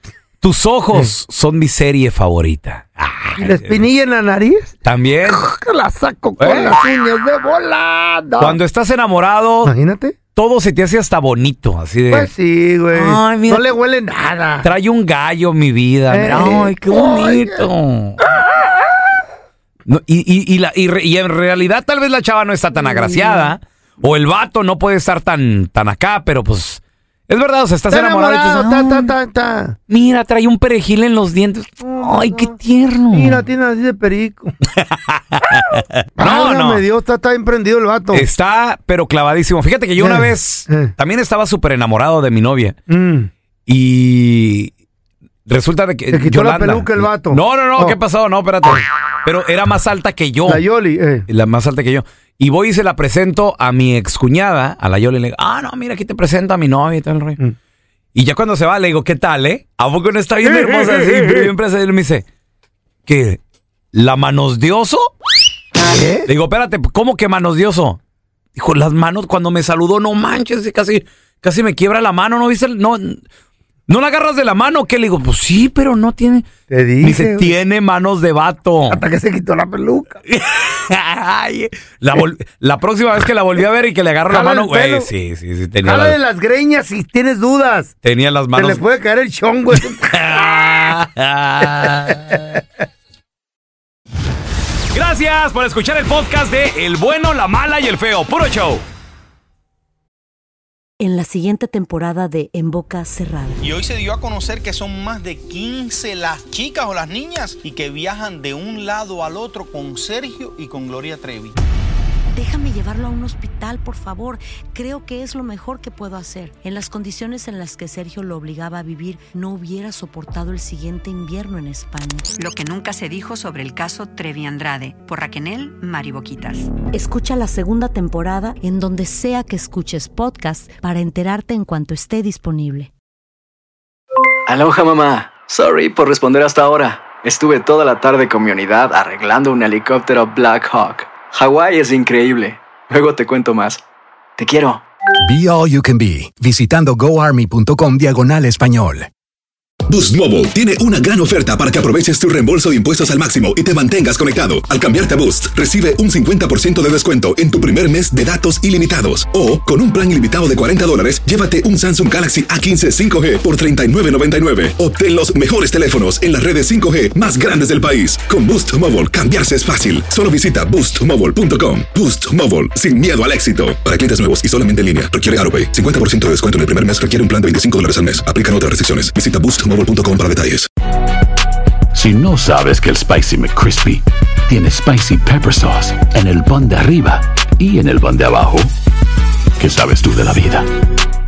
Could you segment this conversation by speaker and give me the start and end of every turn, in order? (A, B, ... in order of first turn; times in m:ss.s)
0:00.4-0:03.9 A
0:03.4-0:04.7 B
0:04.8-0:05.5 A
0:05.2-0:08.6 B
0:06.4-0:06.8 A
0:08.4-0:09.7 A
0:09.6-0:10.2 B
0:10.4-0:12.3 A
0:12.1-0:14.7 B
0:12.9-0:13.8 A
0:14.6-0:18.2 A
0:16.1-0:17.7 B
0:18.2-0:19.2 B
0:19.9-0:29.1 A
0:22.8-0:23.6 B
0:27.9-0:29.8 B
0:29.9-0:33.4 A
0:31.8-0:32.6 B
0:33.1-0:34.5 B
0:34.7-0:36.8 A
0:36.2-0:38.3 B
0:38.1-0:42.8 A
0:40.0-0:40.9 B
0:42.9-0:43.3 B
0:43.7-0:44.7 A
0:45.5-0:50.6 A
0:46.1-0:48.0 B
0:50.5-0:51.3 B
0:51.3-0:57.4 A
0:58.2-1:02.2 A
1:00.4-1:01.5 B
1:03.1-1:03.4 A
1:03.9-1:05.1 A
1:05.8-1:06.3 B
1:06.3-1:08.0 A
1:08.6-1:13.2 A
1:13.9-1:16.5 A
1:16.7-1:17.5 B
1:17.0-1:19.0 A
1:18.9-1:20.2 B
1:20.3-1:26.2 A
1:24.3-1:25.1 B
1:25.8-1:27.9 B
1:28.0-1:28.8 A
1:28.5-1:30.8 B
1:29.7-1:32.6 A
1:31.8-1:32.4 B
1:34.9-1:38.8 A
1:41.0-1:43.6 C
1:43.6-1:51.6 D
1:52.3-2:02.3 C
2:02.4-2:06.7 E
2:06.9-2:12.9 C
2:14.5-2:23.8 F
2:24.4-2:24.8 F
2:25.2-2:29.1 G
2:29.9-3:00.7 H
3:01.9-3:08.7 I
3:09.6-3:10.7 I